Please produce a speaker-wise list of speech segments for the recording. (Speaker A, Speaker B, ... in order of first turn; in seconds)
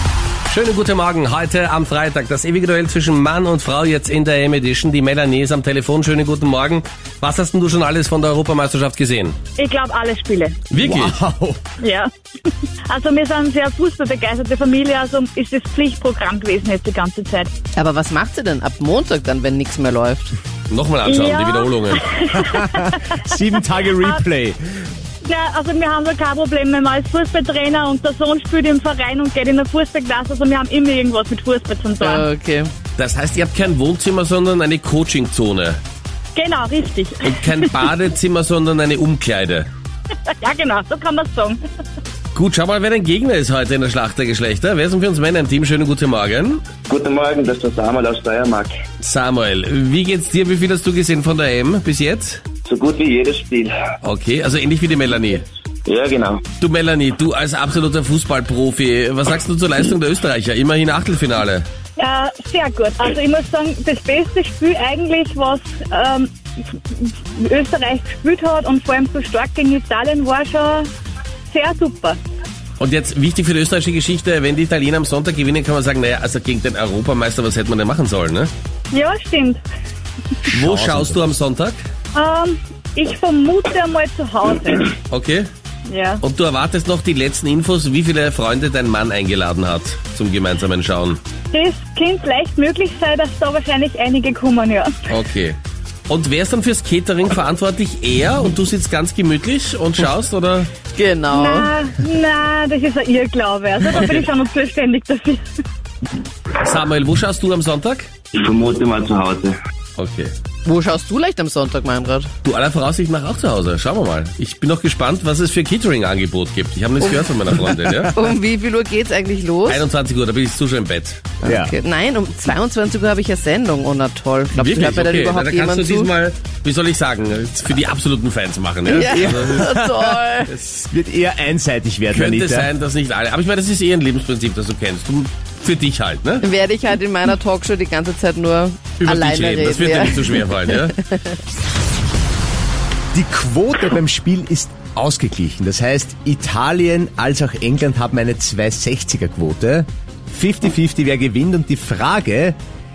Speaker A: 0.5-9.4, 10.7-11.2, 20.7-22.1, 33.0-35.8, 37.2-39.7, 42.3-46.6, 49.0-52.4, 54.0-55.5, 56.6-61.6, 72.8-78.5, 80.5-81.8, 85.1-85.5, 86.2-91.2, 95.1-95.6, 96.1-100.7, 106.6-108.1, 110.0-110.3, 112.4-118.2, 119.7-121.3, 124.5-129.8, 130.4-130.8, 132.1-136.4, 139.0-140.9
Speaker B: 9.6-10.6, 11.8-12.1, 12.9-17.5, 21.0-23.2, 25.2-32.2, 36.3-37.8, 40.3-41.6, 62.0-66.3, 66.9-70.9, 71.5-72.2, 78.9-79.6, 82.1-85.0, 85.9-86.2, 91.5-94.9, 101.3-105.4
Speaker C: 10.8-11.6, 22.4-24.8, 80.5-81.3, 121.4-121.7, 129.0-130.1, 130.8-132.7, 143.1-152.6
Speaker D: 17.8-20.3, 32.0-32.7, 100.9-101.7, 110.6-112.3, 117.8-119.8, 121.4-126.1, 128.8-130.5, 136.4-141.4
Speaker E: 46.9-48.7, 52.6-53.7, 55.9-56.4, 108.3-109.5